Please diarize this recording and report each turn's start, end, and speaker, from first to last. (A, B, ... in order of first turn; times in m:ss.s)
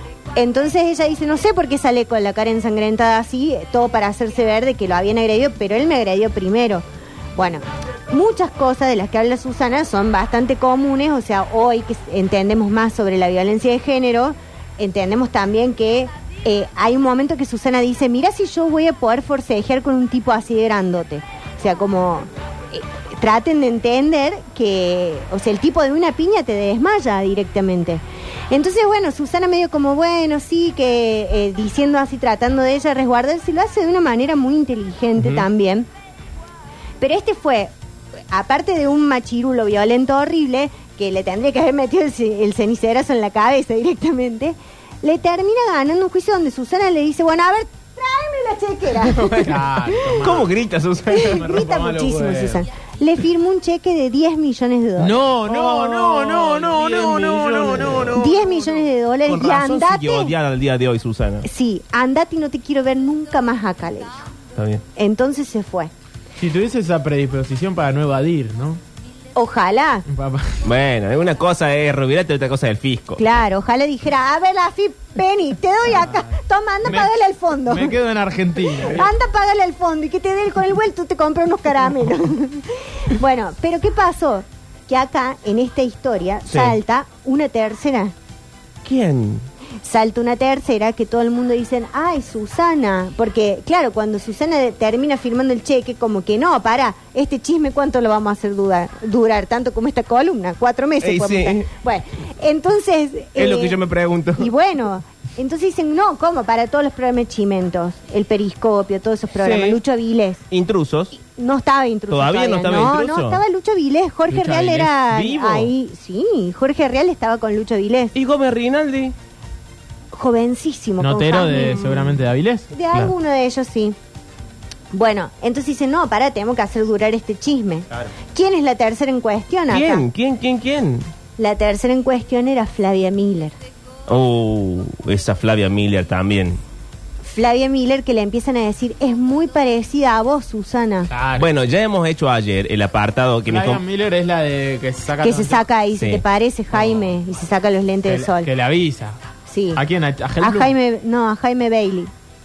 0:00.4-0:06.8 A
0:07.4-0:35.9 A
0:35.2-0:35.4 B
0:37.0-0:37.7 A
0:38.3-0:49.5 A
0:49.0-0:49.7 B
0:49.4-0:50.5 C
0:50.2-0:51.4 B
0:51.1-0:55.2 A
0:51.2-0:52.6 C
0:55.0-0:58.8 C
0:55.4-0:58.2 B
0:58.1-1:00.3 A
0:59.2-1:01.4 B
1:01.4-1:04.3 A
1:04.5-1:04.8 B
1:05.0-1:05.9 A
1:06.4-1:08.8 C
1:09.4-1:10.0 A
1:10.1-1:10.6 C
1:10.6-1:13.2 B
1:13.2-1:18.0 A
1:16.9-1:17.1 C
1:17.7-1:19.1 C
1:18.8-1:28.1 A
1:26.5-1:26.8 B
1:28.8-1:29.4 B
1:29.8-1:43.8 A
1:41.0-1:41.7 B
1:43.4-1:44.5 B
1:44.4-1:50.4 A
1:49.4-1:49.8 B
1:50.5-1:51.1 B
1:51.2-1:58.1 A
1:52.1-1:53.4 B
1:54.3-1:54.7 C
1:54.5-1:55.7 B
1:58.1-1:59.1 B
2:00.1-2:02.2 A
2:01.0-2:02.7 C
2:02.7-2:04.0 A
2:04.9-2:10.0 A
2:09.7-2:11.1 B
2:11.4-2:13.5 A
2:14.1-2:16.6 B
2:17.2-2:21.1 A
2:21.1-2:21.5 C
2:21.4-2:23.8 B
2:23.5-2:25.6 C
2:25.2-2:28.5 A
2:25.9-2:26.2 B
2:26.7-2:27.1 C
2:28.0-2:29.2 C
2:29.5-2:29.8 A
2:29.8-2:30.7 C
2:30.4-2:32.1 A